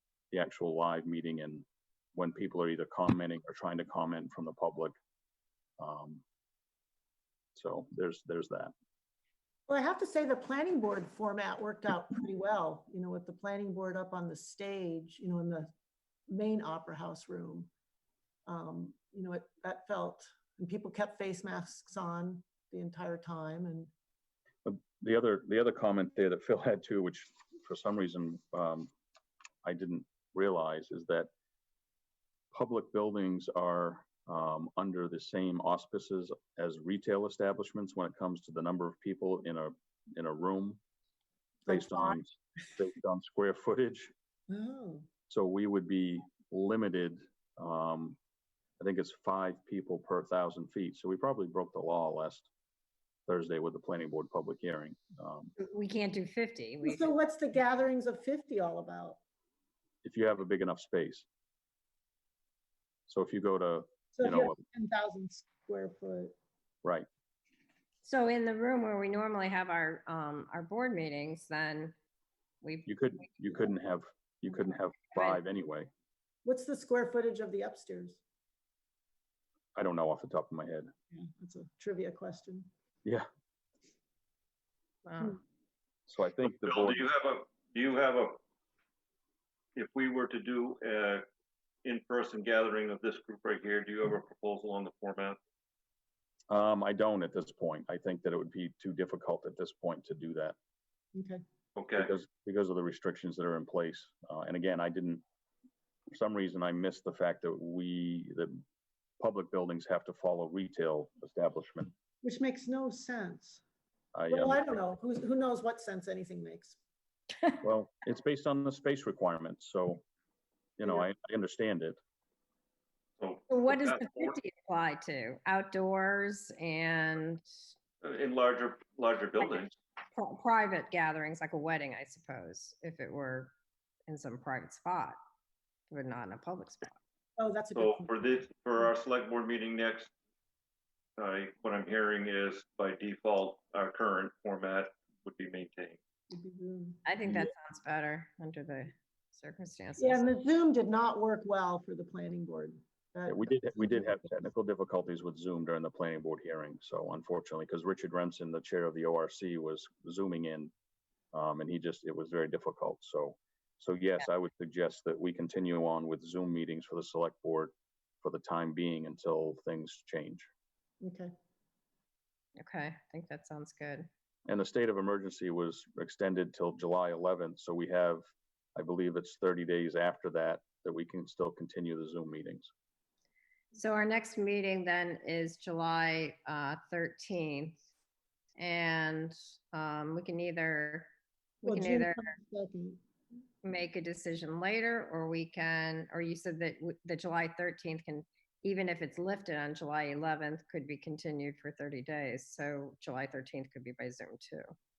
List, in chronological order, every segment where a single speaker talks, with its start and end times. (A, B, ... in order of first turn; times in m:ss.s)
0:00.3-0:04.9 A
0:05.8-0:06.2 A
0:07.5-0:08.7 A
0:09.7-0:15.7 B
0:16.3-0:17.7 B
0:18.4-0:23.9 B
0:24.6-0:28.9 A
0:29.6-0:31.3 A
0:32.5-0:40.8 A
0:41.6-0:42.2 B
0:41.7-0:44.1 A
0:44.5-0:45.0 B
0:45.3-0:48.2 A
0:48.8-0:52.5 A
0:53.3-0:55.5 A
0:55.6-0:57.1 C
0:56.8-0:59.2 B
1:00.0-1:01.3 A
1:03.1-1:04.5 A
1:04.1-1:06.3 B
1:08.0-1:12.0 C
1:12.6-1:13.6 C
1:12.8-1:15.9 A
1:14.7-1:15.4 C
1:16.4-1:18.2 B
1:19.8-1:20.9 A
1:21.1-1:22.7 B
1:25.0-1:25.4 C
1:26.1-1:27.0 A
1:26.4-1:28.4 D
1:29.7-1:31.2 D
1:31.8-1:35.4 D
1:36.5-1:40.6 A
1:41.1-1:41.4 B
1:41.8-1:42.1 D
1:41.9-1:45.2 A
1:46.1-1:48.6 A
1:49.2-1:51.9 A
1:52.2-1:53.6 B
1:54.1-1:54.7 A
1:54.3-1:56.8 B
1:57.6-2:00.0 A
2:00.8-2:02.0 A
2:03.2-2:04.3 D
2:03.5-2:07.4 C
2:08.0-2:09.7 D
2:10.1-2:13.5 C
2:14.1-2:15.2 C
2:15.9-2:17.0 C
2:17.4-2:18.3 B
2:17.7-2:20.1 D
2:21.2-2:26.0 D
2:26.3-2:27.0 B
2:27.0-2:30.3 C
2:27.2-2:27.5 A
2:30.0-2:34.2 B
2:33.3-2:40.7 A
2:41.3-2:50.5 A
2:51.0-2:51.3 B
2:52.6-2:54.1 C
2:54.5-3:02.7 A
3:03.7-3:07.8 C
3:08.6-3:11.1 C
3:11.6-3:12.3 C
3:11.6-3:13.0 B
3:13.6-3:24.7 C